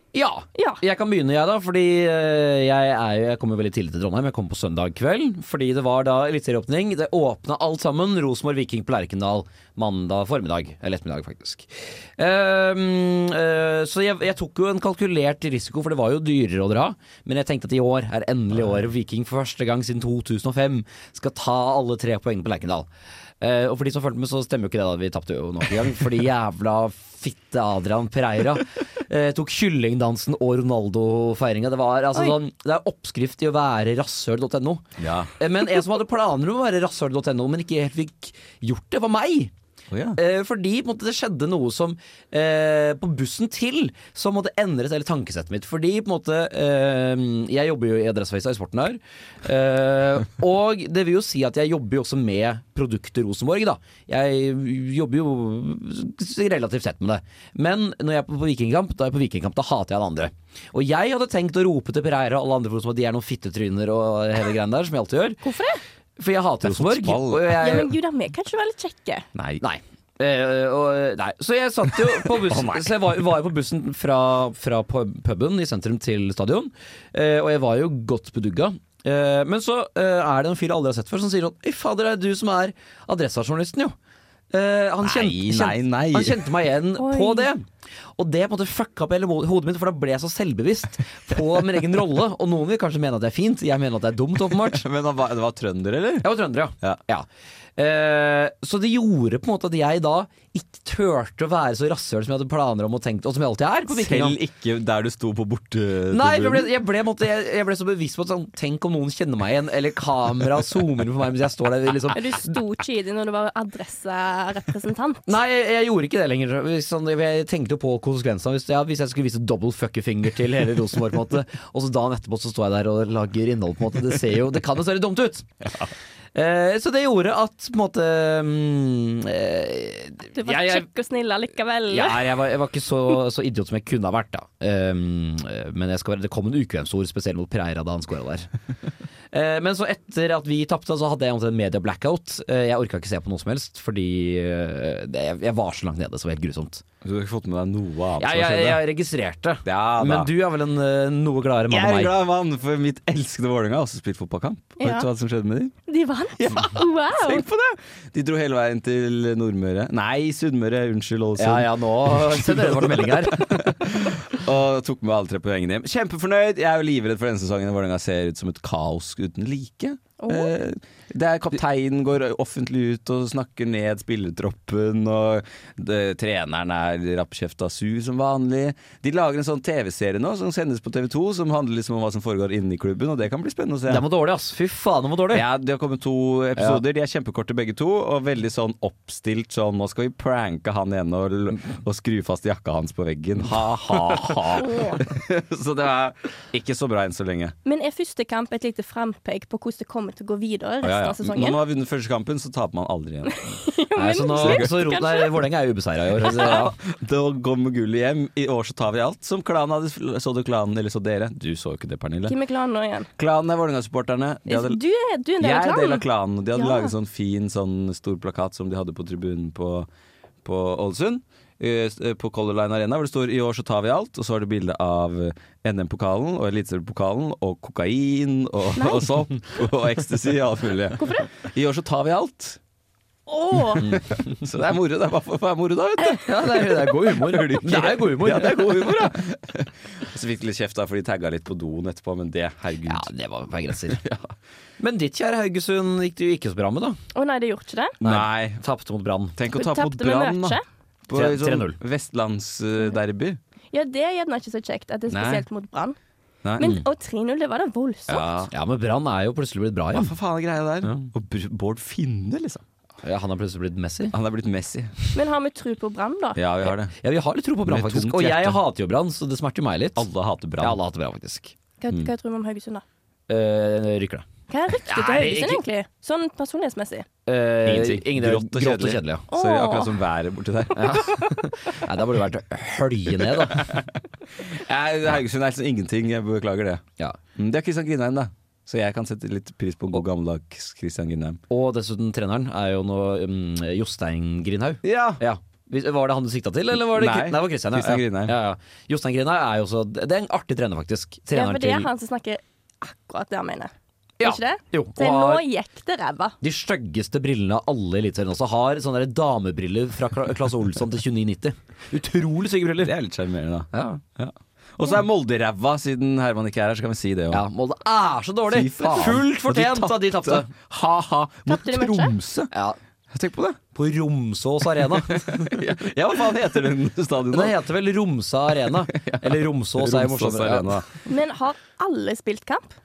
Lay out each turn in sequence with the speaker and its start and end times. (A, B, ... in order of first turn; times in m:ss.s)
0:00.1-0:22.9 A
0:00.6-0:00.8 B
0:23.4-0:34.9 A
0:35.0-0:35.3 C
0:35.4-0:39.5 A
0:39.9-0:40.2 C
0:40.2-1:05.4 A
1:05.4-1:05.8 B
1:06.2-1:07.9 A
1:06.6-1:07.7 C
1:07.6-1:09.3 B
1:09.4-1:09.6 C
1:09.6-1:24.0 A
1:12.3-1:13.1 C
1:24.5-1:27.7 A
1:25.0-1:26.4 C
1:27.0-1:27.5 B
1:28.2-1:34.8 A
1:34.7-1:36.3 C
1:36.2-1:44.4 A
1:43.9-1:46.7 C
1:46.1-1:52.2 A
1:52.1-1:55.4 B
1:55.3-2:05.5 A
2:06.4-2:10.9 A
2:10.3-2:12.3 B
2:11.9-2:18.5 A
2:19.3-2:26.8 A
2:27.0-2:28.8 C
2:28.2-2:32.1 A
2:29.6-2:30.3 C
2:31.7-2:35.7 C
2:34.8-2:35.1 B
2:35.9-2:37.4 B
2:36.4-3:04.0 C
2:41.4-2:43.5 A
2:50.2-2:50.5 B
3:03.9-3:05.4 A
3:05.3-3:17.6 C
3:06.6-3:06.8 A
3:13.9-3:14.4 A
3:14.6-3:15.0 B
3:17.6-3:21.6 B
3:20.8-3:23.6 C
3:23.3-3:25.4 B
3:24.0-3:26.8 A
3:24.3-3:24.8 C
3:26.3-3:32.4 C
3:32.3-3:33.1 B
3:33.2-3:34.8 C
3:34.5-3:36.0 B
3:35.4-3:39.9 C
3:36.6-3:36.9 B
3:40.4-3:52.6 C
3:48.8-3:49.1 B
3:51.0-3:51.3 B
3:53.3-3:53.9 B
3:53.8-4:03.1 C
3:56.2-3:59.1 A
4:02.9-4:04.0 A
4:03.9-4:04.3 C
4:04.8-4:07.0 A
4:07.2-4:08.0 B
4:08.0-4:08.6 C
4:08.0-4:09.4 A
4:09.4-4:13.4 C
4:09.5-4:10.6 B
4:11.1-4:11.8 A
4:13.7-4:16.0 B
4:15.1-4:15.4 C
4:16.4-4:16.8 C
4:16.6-4:18.3 B
4:18.1-4:18.5 C
4:18.5-4:20.1 A
4:19.9-4:22.6 C
4:23.0-4:24.1 A
4:24.1-4:25.0 C
4:25.1-4:26.4 B
4:26.4-4:26.9 C
4:27.0-4:30.1 A
4:27.7-4:28.6 C
4:30.0-4:30.8 C
4:30.6-4:31.6 A
4:31.8-4:32.8 B
4:33.3-4:34.3 A
4:34.5-4:37.1 B
4:34.9-4:35.6 A
4:37.3-4:39.2 A
4:37.6-4:41.1 C
4:39.3-4:39.9 B
4:40.7-4:43.8 A
4:43.6-4:43.8 C
4:44.4-4:46.8 C
4:47.4-4:51.4 C
4:51.5-5:01.9 A
4:54.8-4:55.2 C
4:56.9-4:58.3 C
5:01.3-5:03.7 B
5:04.2-5:05.4 A
5:04.2-5:06.4 B
5:06.4-5:12.9 A
5:12.8-5:17.4 C
5:13.7-5:14.0 A
5:17.3-5:20.5 A
5:18.5-5:22.5 C
5:21.5-5:22.1 B
5:22.5-5:22.8 A
5:23.1-5:23.6 C
5:23.8-5:25.6 A
5:25.1-5:27.6 C
5:27.3-5:30.8 A
5:28.9-5:31.0 C
5:31.1-5:32.7 B